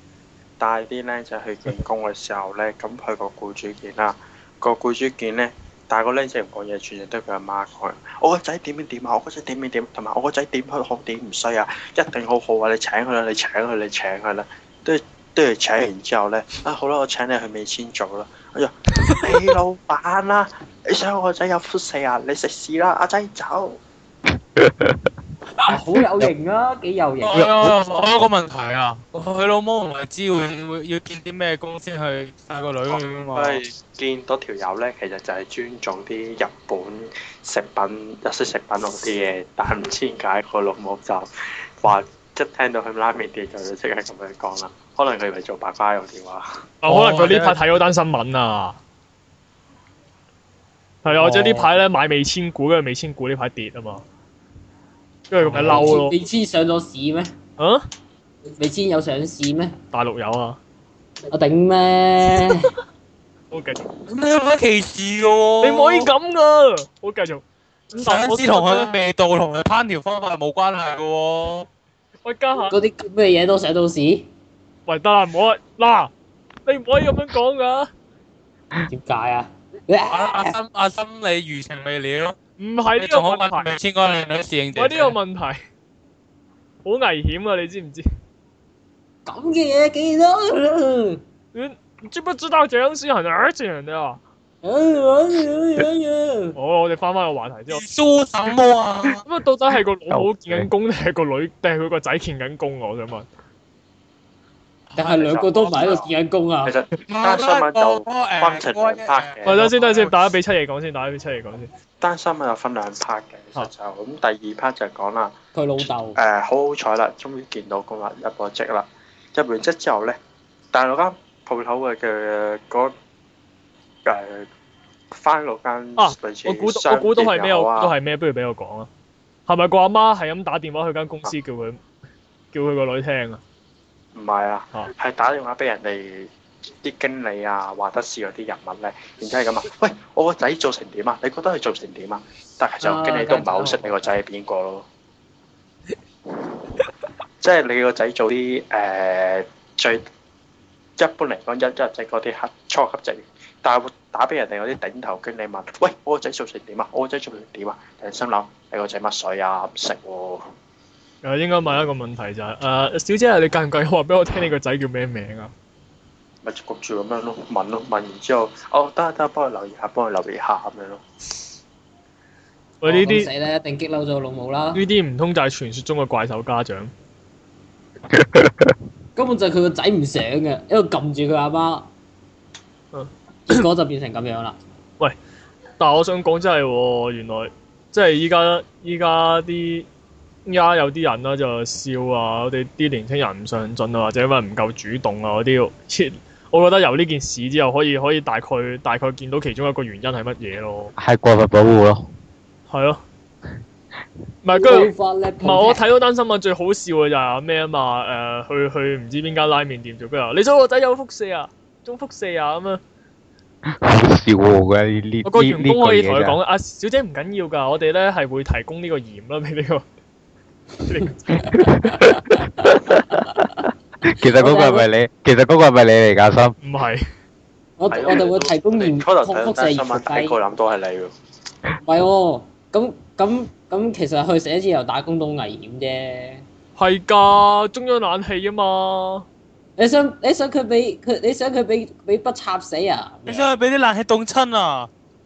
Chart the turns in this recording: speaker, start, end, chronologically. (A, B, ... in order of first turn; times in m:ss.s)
0:00.6-0:23.8 A
0:24.6-0:25.1 B
0:25.7-0:27.5 C
0:27.2-0:33.6 D
0:27.4-0:27.7 B
0:32.9-0:41.3 A
0:41.8-0:46.5 A
0:46.8-0:48.8 E
0:46.9-0:47.6 D
0:51.0-0:54.0 E
0:51.1-0:51.7 D
0:55.3-0:56.2 E
0:55.4-0:55.9 D
0:55.5-0:57.3 C
0:57.6-0:57.8 E
0:58.6-0:59.8 C
0:59.9-1:00.6 E
1:01.3-1:02.7 C
1:03.5-1:03.9 E
1:04.0-1:06.1 D
1:05.6-1:08.9 E
1:08.0-1:11.7 D
1:12.2-1:12.8 E
1:12.7-1:14.3 C
1:14.9-1:16.1 E
1:16.7-1:17.9 E
1:18.9-1:20.6 C
1:20.1-1:22.4 D
1:22.6-1:23.7 E
1:23.0-1:25.2 D
1:24.8-1:25.6 E
1:26.8-1:28.1 E
1:29.3-1:31.2 C
1:31.5-1:34.2 E
1:34.6-1:36.6 C
1:36.6-1:37.8 E
1:37.7-1:39.2 D
1:39.2-1:43.3 E
1:40.1-1:40.7 B
1:45.0-1:46.8 C
1:45.0-1:46.1 A
1:46.6-1:49.6 A
1:47.0-1:50.2 D
1:49.5-1:51.7 E
1:52.0-2:00.2 A
1:55.6-1:56.2 C
2:00.7-2:02.9 A
2:04.0-2:04.5 A
2:05.1-2:07.9 A
2:06.0-2:08.9 E
2:09.5-2:11.8 E
2:12.5-2:13.4 E
2:14.2-2:16.3 A
2:16.8-2:24.9 A
2:22.8-2:24.0 C
2:27.4-2:30.0 A
2:31.0-2:40.5 A
2:41.2-2:45.5 E
2:46.4-2:51.0 A
2:52.8-2:53.3 E
2:52.8-2:54.8 C
2:54.7-2:56.9 E
2:58.1-2:58.8 B
2:59.2-3:01.9 C
3:02.9-3:03.6 E
3:03.5-3:04.6 C
3:05.8-3:09.9 E
3:10.5-3:20.9 E
3:21.0-3:22.1 B
3:22.7-3:23.0 E
3:24.4-3:24.9 E
3:24.6-3:25.8 C
3:25.4-3:32.8 E
3:33.7-3:36.4 B
3:35.2-3:39.8 E
3:40.8-3:41.9 E
3:41.5-3:46.6 B
3:41.6-3:42.7 C
3:44.2-3:44.9 C
3:46.6-3:47.0 E
3:47.8-3:50.4 C
3:47.9-3:51.1 A
3:51.8-3:56.4 C
3:56.8-3:59.3 E
3:59.8-4:03.5 C
4:03.3-4:04.9 D